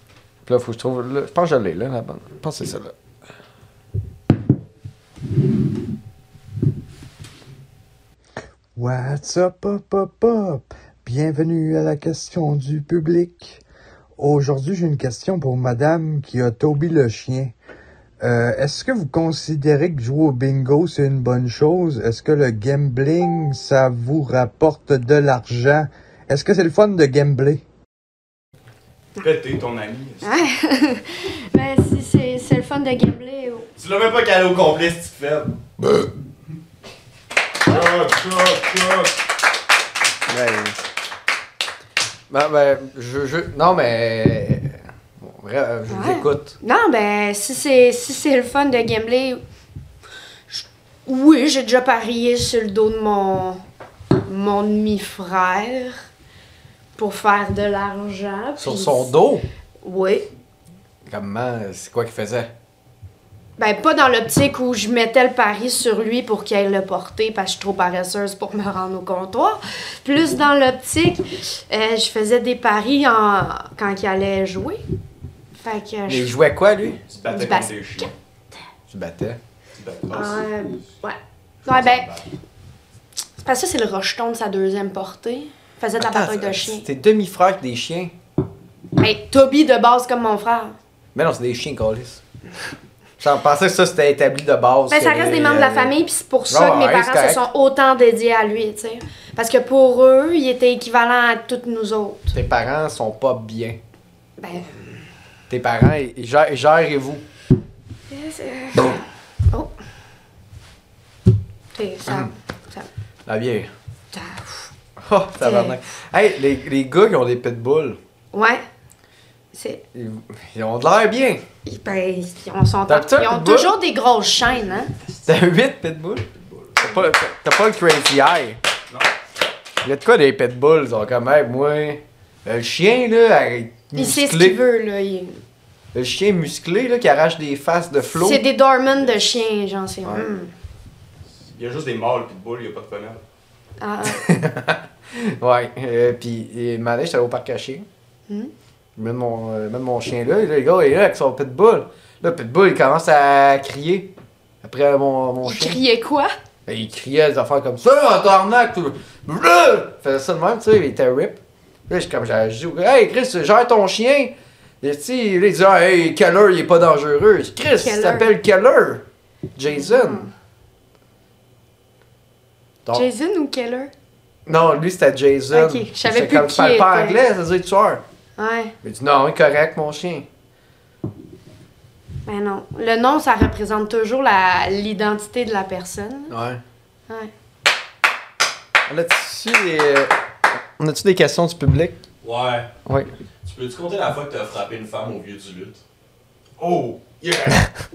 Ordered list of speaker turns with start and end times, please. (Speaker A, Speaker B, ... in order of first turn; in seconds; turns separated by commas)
Speaker A: 0.5-2.9, Speaker B: 8.8-13.6, Speaker B: 14.2-17.5, Speaker B: 18.2-27.6, Speaker C: 29.1-30.3, Speaker D: 30.2-33.7, Speaker E: 33.8-35.6, Speaker C: 37.6-39.1, Speaker A: 40.3-40.8, Speaker A: 42.3-46.5, Speaker D: 45.9-49.4, Speaker D: 50.5-53.6, Speaker D: 54.2-56.0, Speaker D: 57.0-59.1, Speaker A: 58.6-59.5, Speaker D: 59.8-60.3, Speaker A: 61.1-62.5, Speaker D: 63.6-74.8, Speaker D: 75.6-76.3, Speaker A: 76.1-77.0, Speaker C: 77.1-78.1, Speaker D: 77.3-78.0, Speaker A: 78.9-79.4, Speaker C: 79.8-80.5, Speaker D: 80.1-82.1, Speaker D: 83.4-86.9, Speaker A: 86.0-88.1, Speaker D: 89.0-90.7, Speaker A: 91.1-92.2, Speaker A: 93.2-95.9, Speaker D: 94.9-102.3, Speaker A: 96.5-97.4, Speaker A: 102.3-103.8, Speaker D: 104.4-105.0, Speaker A: 105.5-107.2, Speaker D: 108.1-109.7, Speaker D: 111.7-112.9, Speaker A: 112.0-112.3, Speaker A: 113.3-113.7, Speaker D: 114.1-114.7, Speaker A: 115.0-118.0, Speaker D: 115.4-115.8, Speaker D: 118.3-118.6, Speaker D: 119.5-119.8, Speaker A: 119.9-121.4, Speaker D: 121.6-124.9, Speaker A: 122.9-123.8, Speaker A: 125.2-126.3, Speaker A: 126.8-128.6, Speaker A: 129.8-134.6, Speaker D: 133.9-135.4, Speaker A: 135.9-138.4, Speaker D: 138.1-140.5, Speaker A: 140.0-140.3, Speaker C: 141.5-143.2, Speaker D: 143.8-144.2, Speaker A: 144.0-147.8, Speaker A: 149.0-154.1, Speaker A: 154.6-155.8, Speaker D: 155.4-156.3, Speaker A: 156.7-169.0, Speaker D: 167.8-168.3, Speaker A: 169.6-170.3, Speaker D: 169.7-170.3, Speaker D: 172.9-173.9, Speaker A: 174.4-178.0, Speaker D: 175.5-177.2, Speaker D: 178.4-178.7, Speaker A: 178.8-180.2, Speaker D: 182.2-186.3, Speaker A: 186.3-186.6, Speaker A: 188.8-190.1, Speaker A: 190.8-192.0, Speaker E: 192.2-192.7, Speaker A: 192.8-193.1, Speaker E: 193.4-195.8, Speaker C: 196.6-197.6